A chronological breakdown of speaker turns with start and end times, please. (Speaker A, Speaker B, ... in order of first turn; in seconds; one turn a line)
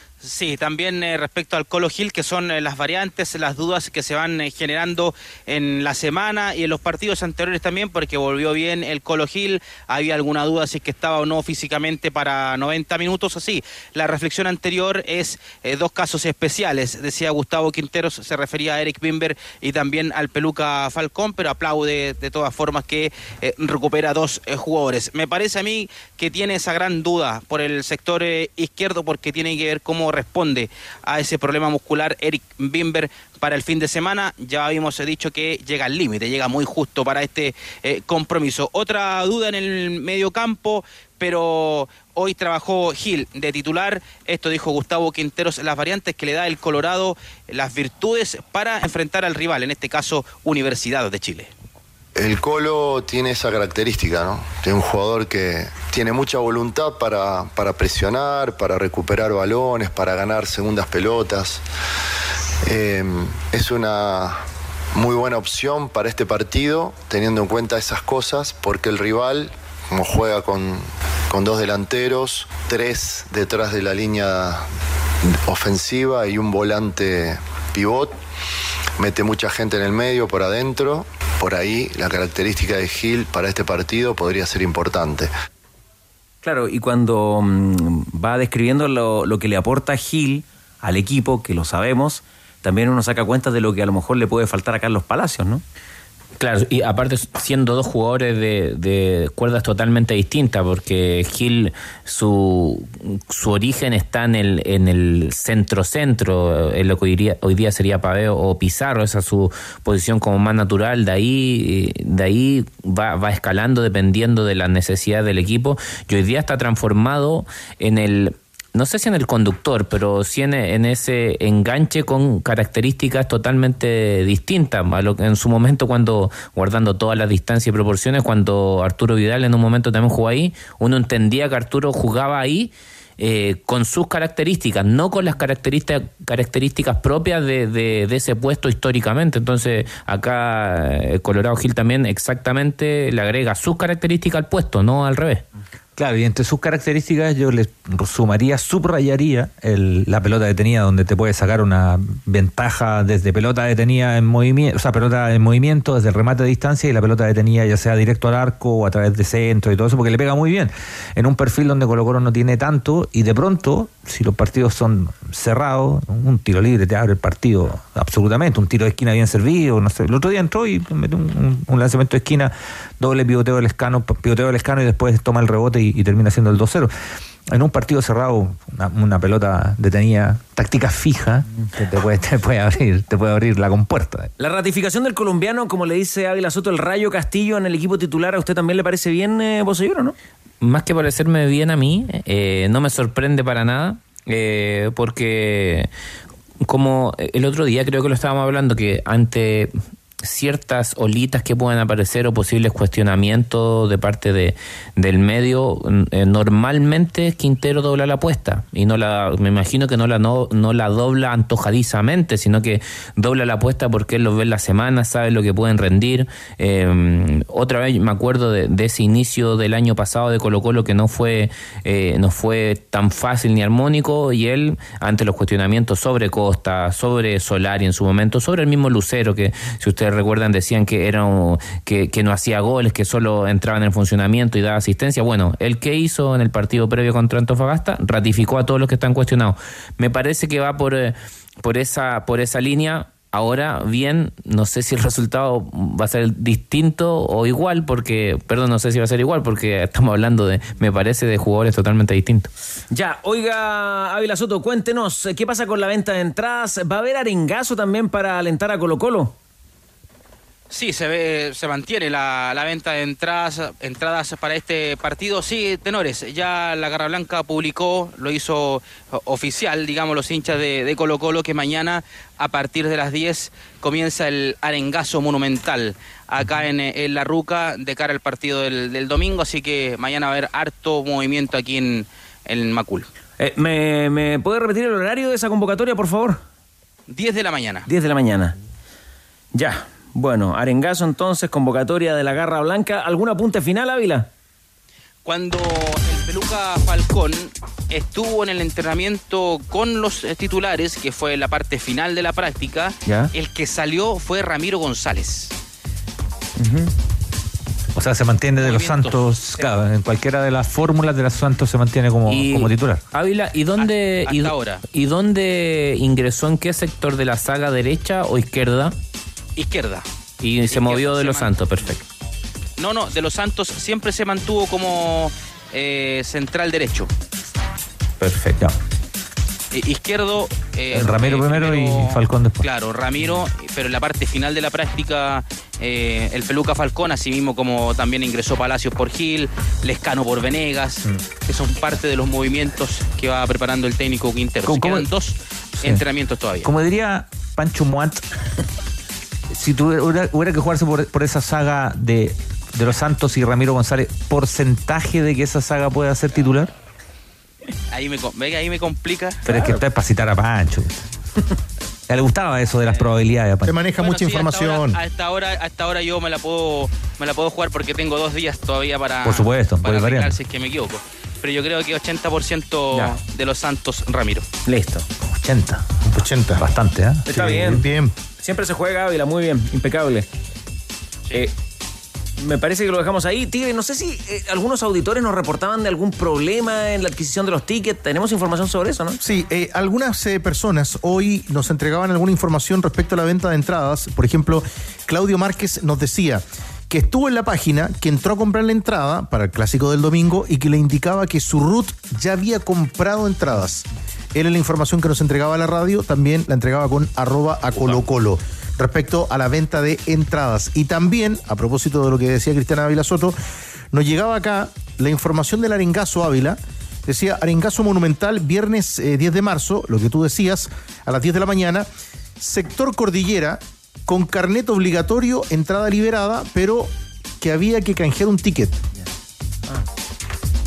Speaker A: 0.2-51.5
Speaker B: 52.2-61.6
Speaker B: 62.6-64.4
Speaker B: 64.9-74.7
Speaker B: 75.2-78.1
Speaker B: 79.0-85.3
Speaker C: 86.4-95.6
Speaker D: 96.4-145.4
Speaker E: 146.0-176.9
Speaker E: 177.5-184.3
Speaker C: 184.4-190.2
Speaker D: 190.6-195.9
Speaker D: 196.6-252.5
Speaker C: 252.9-259.4
Speaker A: 260.7-283.1
Speaker C: 283.4-286.4
Speaker A: 287.1-287.9
Speaker C: 287.9-288.6
Speaker C: 289.5-294.3
Speaker A: 295.2-305.5
Speaker C: 306.6-306.9
Speaker E: 308.0-313.0
Speaker A: 308.6-309.2
Speaker D: 312.3-319.0
Speaker A: 313.8-314.8
Speaker A: 319.6-320.1
Speaker D: 320.4-322.0
Speaker A: 320.7-321.5
Speaker A: 322.8-327.1
Speaker E: 328.2-328.7
Speaker A: 329.7-346.7
Speaker E: 330.9-332.6
Speaker E: 344.6-345.1
Speaker E: 345.8-346.0
Speaker E: 346.6-348.2
Speaker E: 349.5-356.7
Speaker A: 357.9-359.4
Speaker E: 359.5-361.1
Speaker C: 359.5-359.8
Speaker E: 362.1-363.7
Speaker F: 363.7-365.0
Speaker A: 364.0-374.5
Speaker E: 369.2-370.4
Speaker C: 372.9-373.2
Speaker C: 374.7-375.1
Speaker E: 375.3-377.5
Speaker F: 376.1-376.6
Speaker C: 377.3-377.9
Speaker F: 377.3-378.1
Speaker C: 378.4-380.3
Speaker C: 382.4-389.2
Speaker F: 389.2-413.4
Speaker F: 413.9-421.9
Speaker F: 422.4-428.8